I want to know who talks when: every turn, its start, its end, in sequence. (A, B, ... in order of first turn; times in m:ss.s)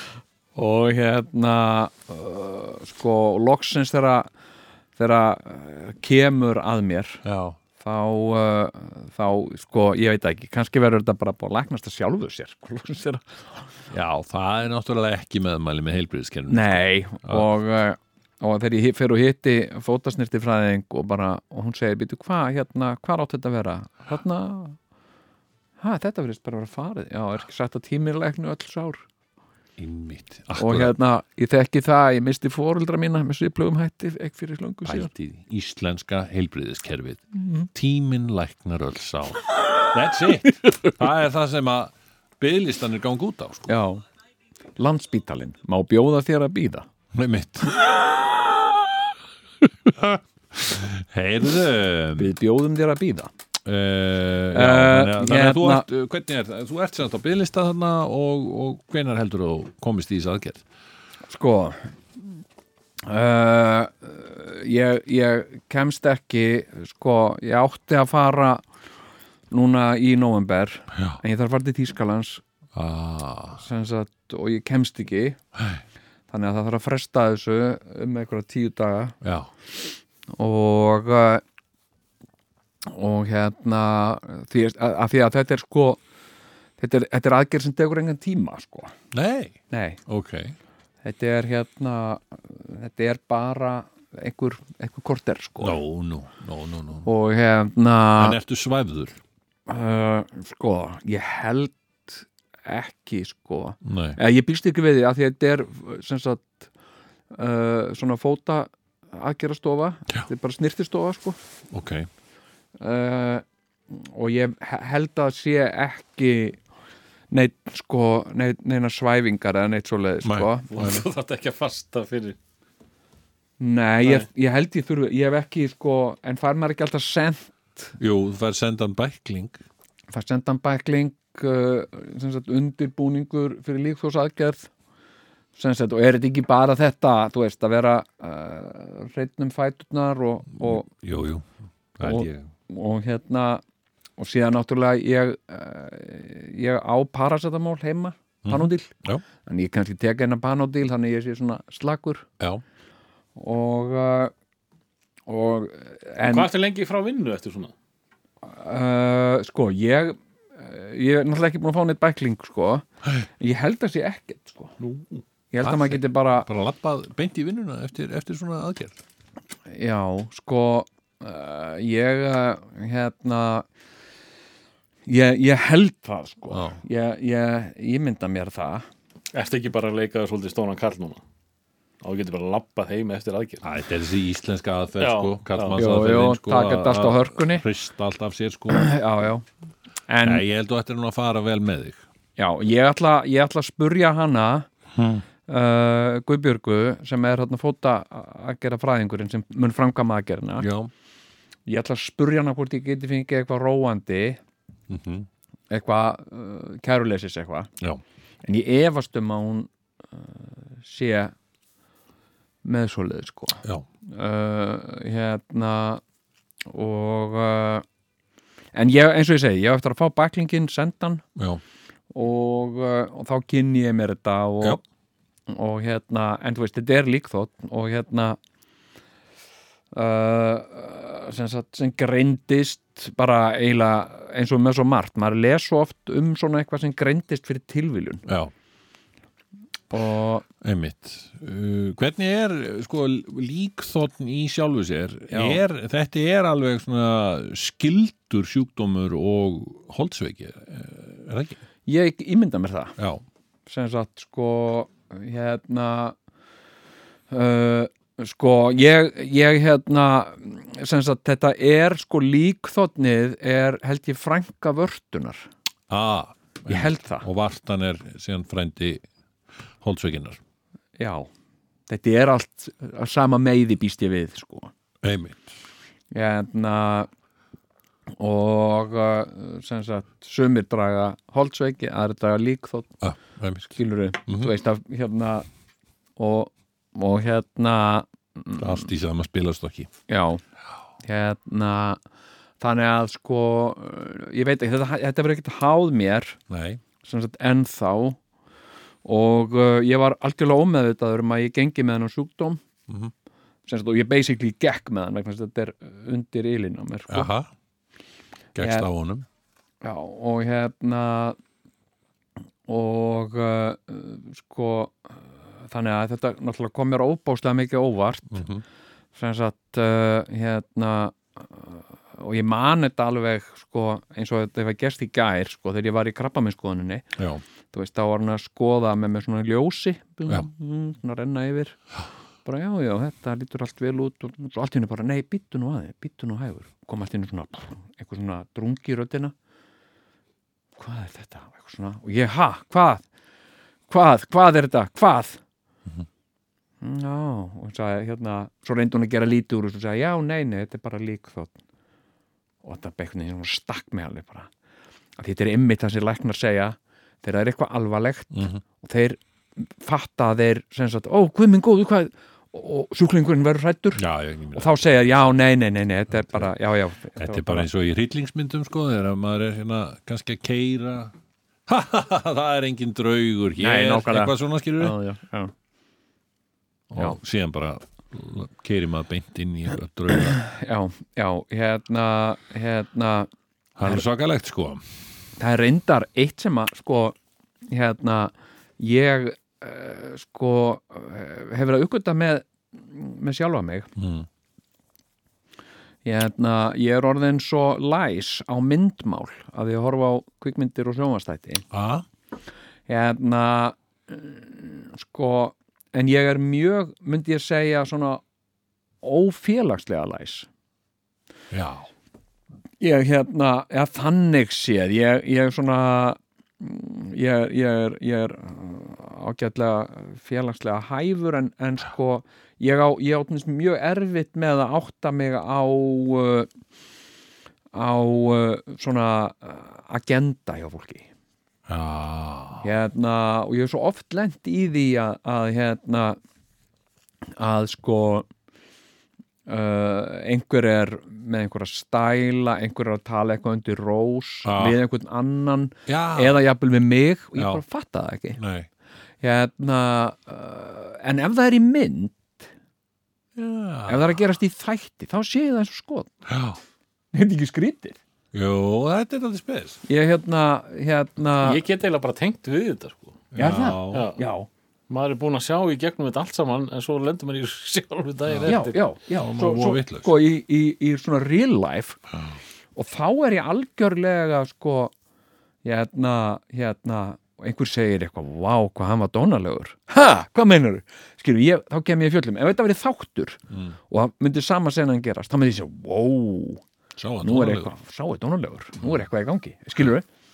0:00.6-0:04.3 A
0:05.0-0:07.2 A
0:07.2-0:07.6 B
0:07.8-0:13.6 A
0:13.9-0:17.5 B
0:16.5-0:24.8 A
0:25.8-0:29.0 A
0:29.8-0:31.0 B
0:30.6-0:35.1 A
0:34.8-0:43.8 B
0:37.4-0:37.7 A
0:43.7-0:44.0 A
0:44.8-0:46.9 A
0:47.1-0:47.8 B
0:49.9-0:52.3 B
0:52.2-0:53.3 A
0:53.6-1:00.6 B
0:54.5-0:55.9 A
1:01.3-1:01.9 A
1:03.0-1:08.6 A
1:09.5-1:12.4 A
1:12.7-1:13.6 B
1:13.6-1:15.4 A
1:16.3-1:19.2 A
1:19.2-1:19.5 B
1:20.4-1:21.4 A
1:22.9-1:26.0 A
1:26.8-1:28.9 A
1:29.1-1:30.6 B
1:29.7-1:30.0 A
1:31.0-1:35.8 A
1:35.6-1:37.1 B
1:37.0-1:38.4 A
1:38.2-1:39.2 B
1:39.7-1:46.7 A
1:43.8-1:44.2 B
1:47.3-1:51.4 A
1:51.7-1:52.1 B
1:52.8-1:56.6 A
1:57.3-2:00.7 A
2:00.2-2:01.0 B
2:00.7-2:02.4 C
2:03.6-2:07.9 A
2:04.0-2:04.3 C
2:08.0-2:09.6 B
2:10.1-2:14.7 A
2:15.6-2:20.9 A
2:20.6-2:22.5 B
2:22.0-2:23.6 A
2:24.2-2:28.9 A
2:28.4-2:29.2 B
2:29.4-2:32.3 A
2:33.4-2:34.3 A
2:35.3-2:36.5 A
2:36.2-2:37.7 C
2:38.4-2:42.8 A
2:43.4-2:44.7 A
2:44.8-2:45.2 C
2:45.5-2:46.5 A
2:45.6-2:49.0 B
2:49.7-2:53.7 A
2:55.1-2:58.9 A
2:56.5-2:56.8 B
2:59.3-3:01.2 C
3:02.0-3:03.7 C
3:03.6-3:08.9 B
3:05.0-3:05.8 C
3:05.8-3:07.7 A
3:08.7-3:09.4 A
3:10.1-3:10.4 A
3:10.2-3:12.0 B
3:12.4-3:14.7 A
3:14.9-3:15.2 B
3:15.5-3:20.7 A
3:20.6-3:20.9 B
3:21.7-3:24.4 A
3:24.9-3:25.3 B
3:25.7-3:27.7 A
3:28.4-3:31.3 A
3:32.6-3:36.0 A
3:36.7-3:37.8 A
3:38.7-3:41.2 A
3:41.4-3:41.6 B
3:42.1-3:44.8 A
3:45.5-3:48.4 A
3:49.9-3:58.3 A
3:58.3-3:58.5 B
3:59.9-4:00.4 A
4:00.6-4:11.6 B
4:05.3-4:05.6 A
4:11.9-4:13.0 A
4:13.0-4:13.2 B
4:13.7-4:16.2 A
4:17.3-4:25.5 A
4:25.9-4:29.0 B
4:26.7-4:27.3 A
4:29.8-4:30.4 B
4:31.0-4:31.3 A
4:31.9-4:34.7 A
4:35.0-4:35.4 B
4:36.1-4:37.1 A
4:38.2-4:43.0 A
4:43.0-4:44.5 B
4:43.7-4:45.5 A
4:46.2-4:48.9 A
4:48.6-4:49.9 B
4:50.1-4:50.4 A
4:51.0-4:52.0 A
4:52.6-4:56.4 A
4:56.5-4:56.8 B
4:57.0-4:58.2 A
4:59.0-5:02.6 A
5:03.7-5:07.3 A
5:07.1-5:07.5 B
5:08.6-5:09.3 B
5:08.6-5:08.9 A
5:09.8-5:11.4 A
5:12.7-5:18.4 A
5:18.3-5:18.6 B
5:19.2-5:27.1 A
5:27.7-5:31.8 A
5:32.4-5:39.3 A
5:40.8-5:43.0 A
5:43.9-5:45.4 A
5:46.8-5:51.6 A
5:52.6-5:54.5 A
5:55.2-6:07.7 A
5:58.3-5:58.6 B
6:04.0-6:05.4 B
6:06.1-6:06.5 B
6:07.2-6:11.1 B
6:11.7-6:15.0 B
6:13.6-6:15.5 A
6:16.9-6:20.4 B
6:20.4-6:23.3 A
6:23.8-6:24.8 B
6:25.4-6:27.2 A
6:27.7-6:33.9 A
6:34.0-6:34.3 B
6:36.0-6:41.7 A
6:41.7-6:42.1 B
6:42.9-6:48.2 A
6:49.0-6:50.5 A
6:51.5-6:51.9 B
6:52.8-7:06.5 A
7:07.7-7:11.1 A
7:11.7-7:12.7 B
7:12.6-7:16.2 A
7:17.4-7:18.3 A
7:19.5-7:28.4 A
7:24.4-7:24.8 B
7:25.9-7:26.4 B
7:27.4-7:27.6 B
7:28.4-7:28.7 B
7:29.2-7:32.5 A
7:33.4-7:34.2 B
7:33.9-7:36.2 A
7:36.3-7:36.6 B
7:37.1-7:38.0 A
7:38.3-7:39.8 B
7:39.9-7:41.6 A
7:41.4-7:43.3 C
7:43.3-7:44.1 B
7:43.4-7:44.5 A
7:43.9-7:44.2 C
7:44.9-7:48.8 C
7:48.3-7:50.1 B
7:48.5-7:52.0 A
7:52.8-7:54.9 A
7:55.6-8:06.6 A
8:03.5-8:03.8 B
8:07.0-8:07.7 B
8:07.2-8:10.0 A